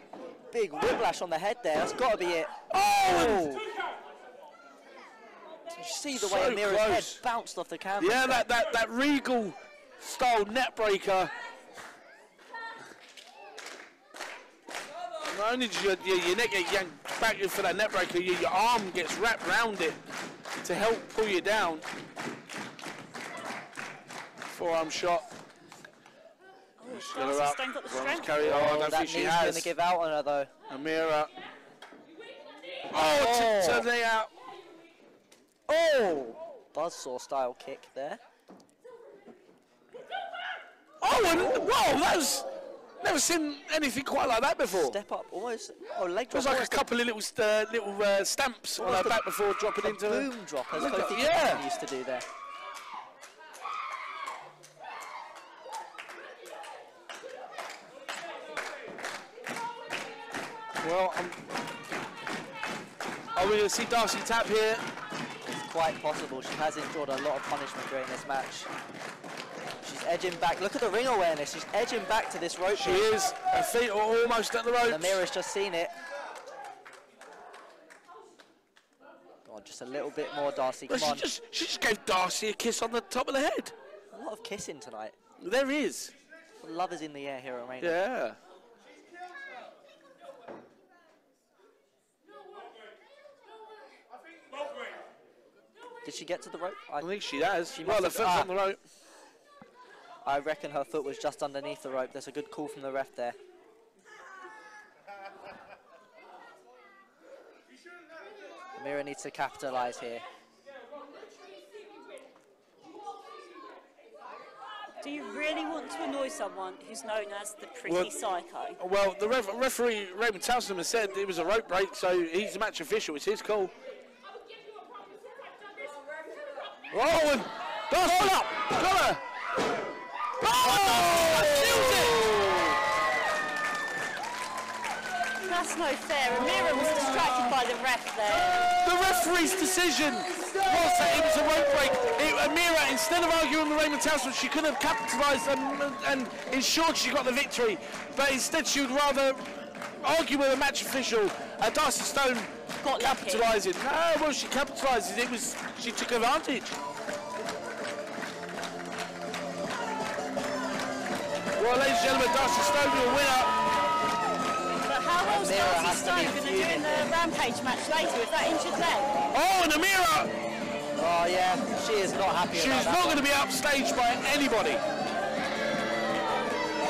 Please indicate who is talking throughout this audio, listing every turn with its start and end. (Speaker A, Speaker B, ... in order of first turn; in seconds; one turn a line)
Speaker A: 0.5-3.6
Speaker B: 2.7-3.6
Speaker A: 5.7-8.5
Speaker B: 6.1-7.2
Speaker B: 8.0-11.3
Speaker B: 15.2-20.0
Speaker B: 20.6-21.8
Speaker B: 24.5-25.3
Speaker C: 26.8-28.4
Speaker B: 26.9-29.7
Speaker A: 28.4-30.5
Speaker B: 30.7-31.3
Speaker B: 32.9-34.3
Speaker A: 32.9-33.9
Speaker A: 35.7-38.2
Speaker B: 41.0-45.0
Speaker A: 44.7-46.9
Speaker B: 46.3-51.6
Speaker A: 48.8-49.2
Speaker A: 49.8-52.2
Speaker B: 60.8-61.4
Speaker B: 63.3-64.8
Speaker A: 65.5-68.7
Speaker A: 69.8-73.1
Speaker B: 72.7-75.2
Speaker A: 74.8-75.9
Speaker A: 79.5-81.3
Speaker B: 80.9-83.7
Speaker A: 84.1-85.1
Speaker B: 85.4-86.1
Speaker A: 86.6-88.0
Speaker B: 87.8-88.4
Speaker A: 96.0-97.1
Speaker B: 97.0-98.8
Speaker A: 97.7-98.5
Speaker A: 100.2-103.4
Speaker A: 108.8-110.2
Speaker C: 115.0-118.8
Speaker B: 117.9-118.1
Speaker B: 118.8-123.7
Speaker B: 126.9-129.2
Speaker B: 130.4-132.5
Speaker C: 130.7-131.0
Speaker C: 135.5-138.7
Speaker B: 138.7-156.8
Speaker C: 152.8-153.5
Speaker B: 161.6-163.5
Speaker C: 164.8-169.1
Speaker A: 165.2-167.1
Speaker B: 169.3-170.3
Speaker A: 171.0-173.2
Speaker B: 172.5-174.8